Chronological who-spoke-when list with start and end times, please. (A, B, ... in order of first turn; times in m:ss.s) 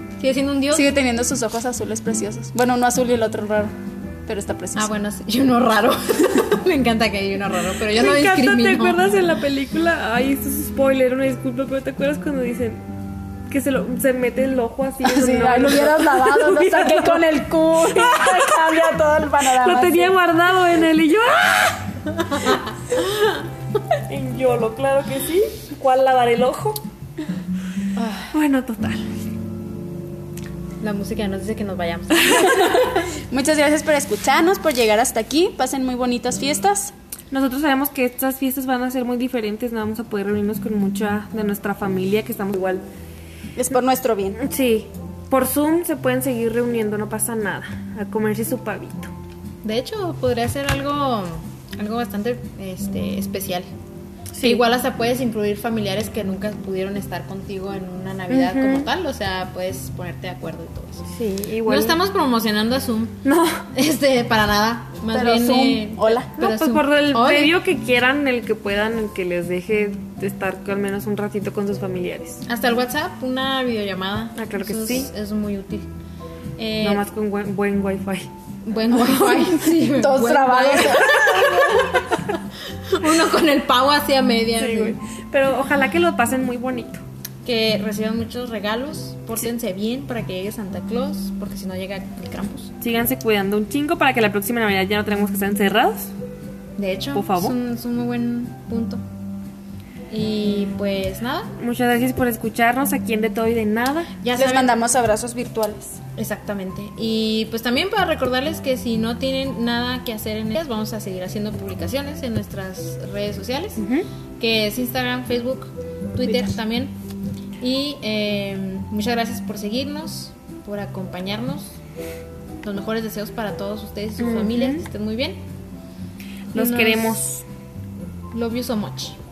0:00.2-0:00.9 A
0:00.7-0:03.7 B
0:04.3-0:04.9 B
0:04.8-0:09.0 A
0:07.9-0:12.8 C
0:13.5-0:18.8 C
0:15.0-0:20.2 B
0:19.5-0:21.8 C
0:24.1-0:26.8 C
0:28.0-0:28.3 A
0:28.3-0:29.0 C
0:30.8-0:32.8 A
0:32.3-0:36.9 B
0:37.3-0:42.8 C
0:43.6-0:44.4 B
0:44.4-0:49.1 C
0:49.6-0:53.7 A
0:54.3-0:54.6 C
0:54.4-1:01.1 A
0:58.3-0:58.9 C
1:01.1-1:02.0 C
1:01.6-1:03.2 A
1:03.2-1:03.6 C
1:03.8-1:07.6 A
1:05.1-1:06.3 B
1:06.4-1:12.4 C
1:12.5-1:15.9 A
1:14.4-1:15.1 C
1:16.6-1:17.0 A
1:16.8-1:18.3 C
1:18.7-1:22.2 A
1:18.9-1:22.1 B
1:22.9-1:25.0 A
1:24.6-1:27.0 C
1:27.4-1:32.7 A
1:32.8-1:36.1 C
1:36.8-1:39.0 A
1:37.1-1:37.6 C
1:40.1-1:41.5 A
1:41.6-1:44.1 C
1:44.2-1:44.8 A
1:44.4-1:46.0 B
1:46.2-1:53.8 A
1:53.8-1:54.1 C
1:54.4-1:56.9 A
1:57.6-2:01.7 A
2:02.6-2:05.4 A
2:04.2-2:04.8 C
2:06.5-2:07.4 C
2:06.5-2:07.3 A
2:08.3-2:09.2 A